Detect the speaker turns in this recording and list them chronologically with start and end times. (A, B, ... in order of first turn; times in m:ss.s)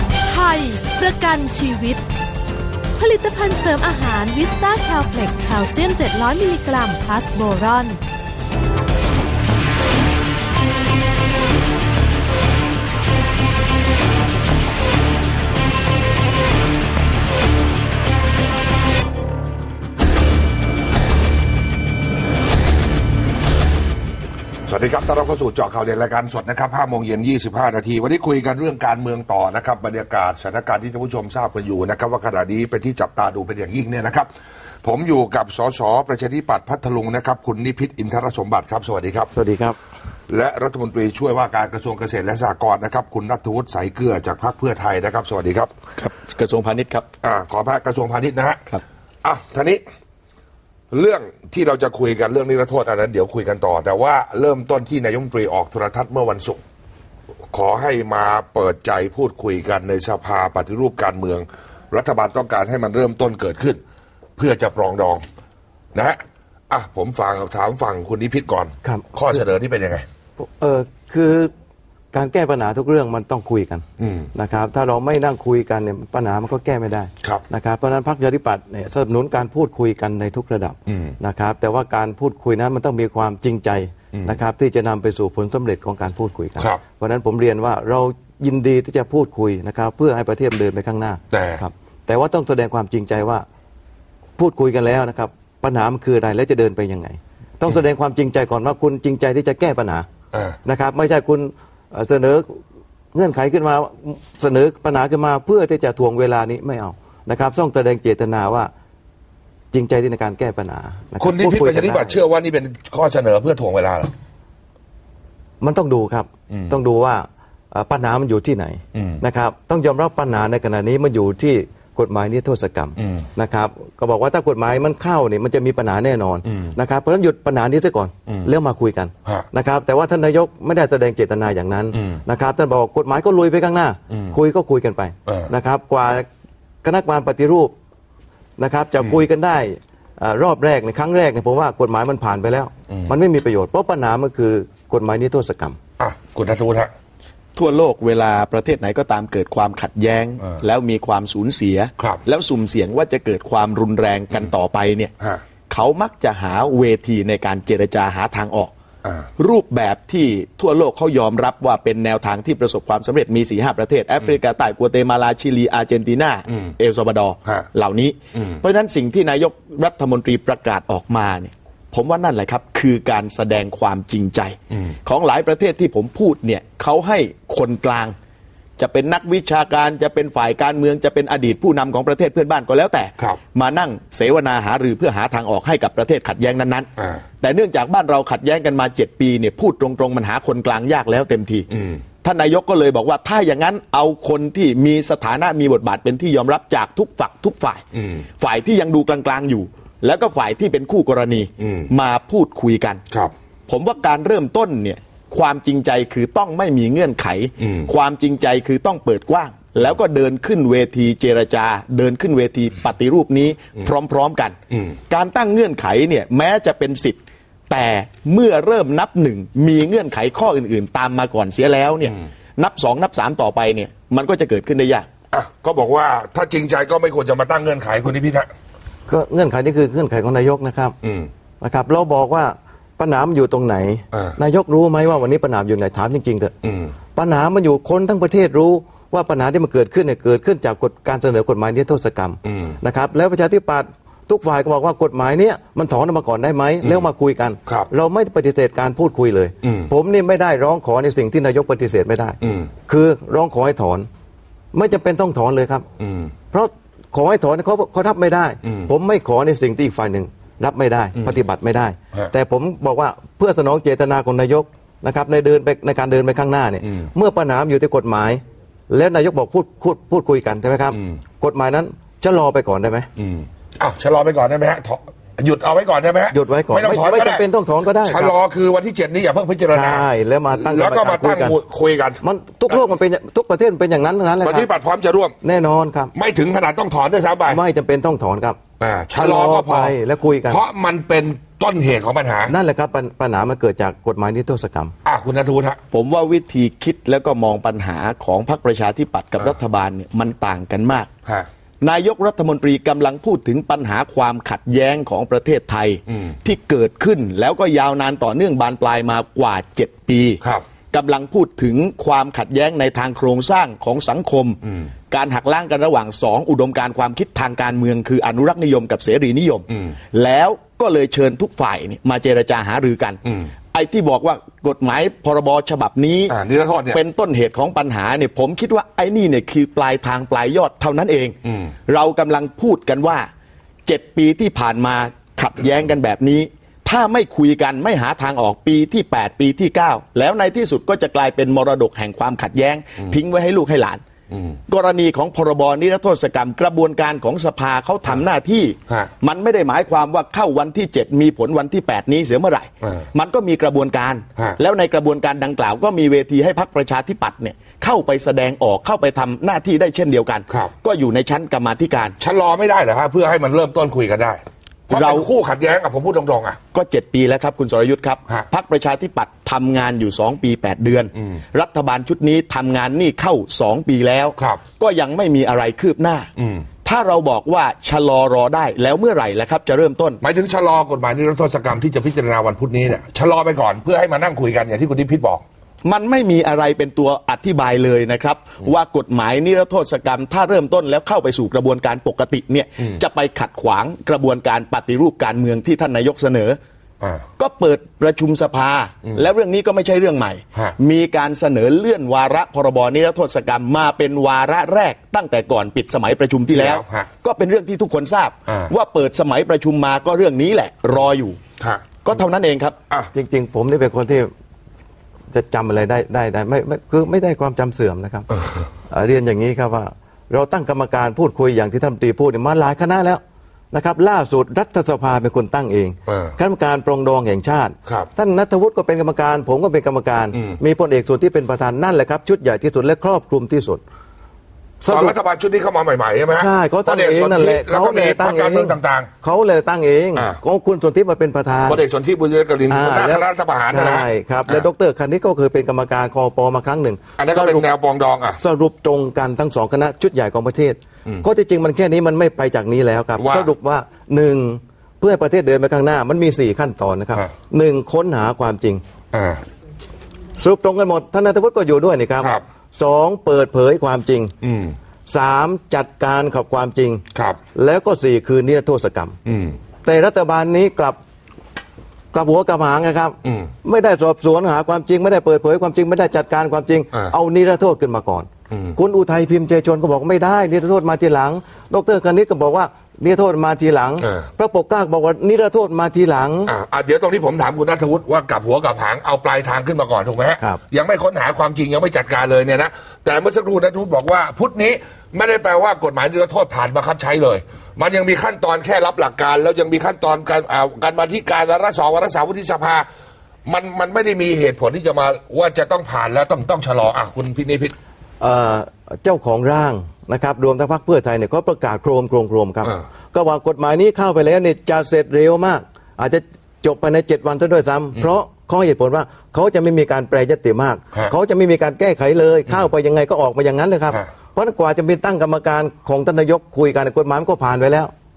0:00.3-0:02.0 A
0:02.9-0:08.0 A
0:24.7-0:34.3 B
0:34.8-0:39.3 B
0:39.3-0:39.8 C
0:40.3-0:45.7 B
0:46.0-0:47.0 D
0:47.2-0:48.6 B
0:49.2-0:49.8 B
0:50.9-0:56.6 B
0:57.5-1:03.8 B
1:04.4-1:05.2 B
1:05.9-1:06.2 B
1:06.7-1:10.0 B
1:08.8-1:09.4 C
1:10.4-1:11.5 C
1:12.1-1:33.4 C
1:14.0-1:14.3 B
1:20.9-1:21.2 B
1:24.1-1:24.4 B
1:31.3-1:31.6 B
1:34.4-1:40.0 C
1:40.6-1:42.6 C
1:43.1-1:48.7 C
1:49.7-1:52.2 C
1:51.2-1:54.1 B
1:55.6-2:16.2 C
1:56.5-1:56.8 B
1:58.9-1:59.2 B
2:03.0-2:03.3 B
2:06.5-2:06.7 B
2:11.9-2:12.2 B
2:14.1-2:14.4 B
2:16.8-2:17.7 C
2:18.6-2:25.8 C
2:26.0-2:26.9 B
2:27.6-2:35.1 D
2:35.7-2:38.7 D
2:39.0-2:39.3 B
2:39.4-2:58.1 D
2:48.3-2:48.6 B
2:58.8-3:06.9 D
3:07.4-3:11.7 D
3:11.7-3:12.0 B
3:12.2-3:17.8 D
3:17.9-3:18.2 B
3:18.4-3:23.0 D
3:21.6-3:21.9 B
3:23.7-3:34.6 D
3:27.6-3:27.9 B
3:35.1-3:45.1 D
3:45.3-3:48.5 B
3:49.1-3:51.0 C
3:51.0-3:51.3 B
3:51.6-3:56.5 C
3:54.1-3:54.4 B
3:56.6-3:57.0 B
3:57.1-4:12.4 C
4:02.4-4:02.8 B
4:09.6-4:09.9 B
4:12.4-4:12.7 B
4:12.9-4:14.1 C
4:14.7-4:15.8 C
4:16.0-4:16.3 B
4:16.5-4:33.1 C
4:18.6-4:18.9 B
4:33.2-4:37.4 B
4:36.3-4:38.3 C
4:38.0-4:42.8 B
4:39.7-4:41.6 C
4:42.2-4:44.7 C
4:44.4-4:45.4 B
4:45.4-4:46.1 C
4:46.1-4:47.6 B
4:47.5-4:48.6 C
4:48.8-4:49.9 B
4:49.1-4:50.6 C
4:50.5-4:52.5 B
4:52.5-4:54.9 C
4:55.0-4:55.8 B
4:55.9-5:01.1 D
5:01.8-5:14.6 D
5:15.1-5:26.4 D
5:19.7-5:19.9 B
5:23.2-5:23.5 B
5:26.3-5:27.0 B
5:26.9-5:33.3 D
5:31.4-5:31.7 B
5:33.8-5:44.0 D
5:44.3-5:44.6 B
5:44.7-6:02.2 D
6:02.2-6:06.6 B
6:04.9-6:05.3 D
6:06.7-6:16.3 D
6:16.4-6:16.6 B
6:16.8-6:20.2 D
6:20.2-6:25.4 B
6:25.8-6:36.6 D
6:37.4-6:51.4 D
6:46.5-6:47.1 B
6:52.0-6:52.8 D
6:53.1-6:54.3 C
6:55.3-6:58.3 C
6:58.3-6:58.7 B
6:58.9-7:03.2 C
7:03.7-7:13.8 C
7:06.1-7:06.4 B
7:14.8-7:15.2 C
7:14.9-7:19.1 B
7:16.3-7:21.8 C
7:21.7-7:24.7 B
7:22.7-7:27.7 C
7:27.2-7:28.4 B
7:28.3-7:38.8 C
7:33.2-7:33.5 B
7:39.1-7:39.4 B
7:40.4-7:44.3 C
7:44.4-7:44.8 B
7:45.1-7:47.0 C
7:47.1-7:47.4 B
7:47.5-7:49.2 C
7:49.2-7:49.6 B
7:49.8-7:51.0 C
7:52.1-8:06.5 C
7:53.2-7:53.5 B
7:58.5-7:58.8 B
8:04.0-8:04.3 B
8:06.4-8:22.9 B
8:23.5-8:27.7 B
8:28.2-8:47.9 C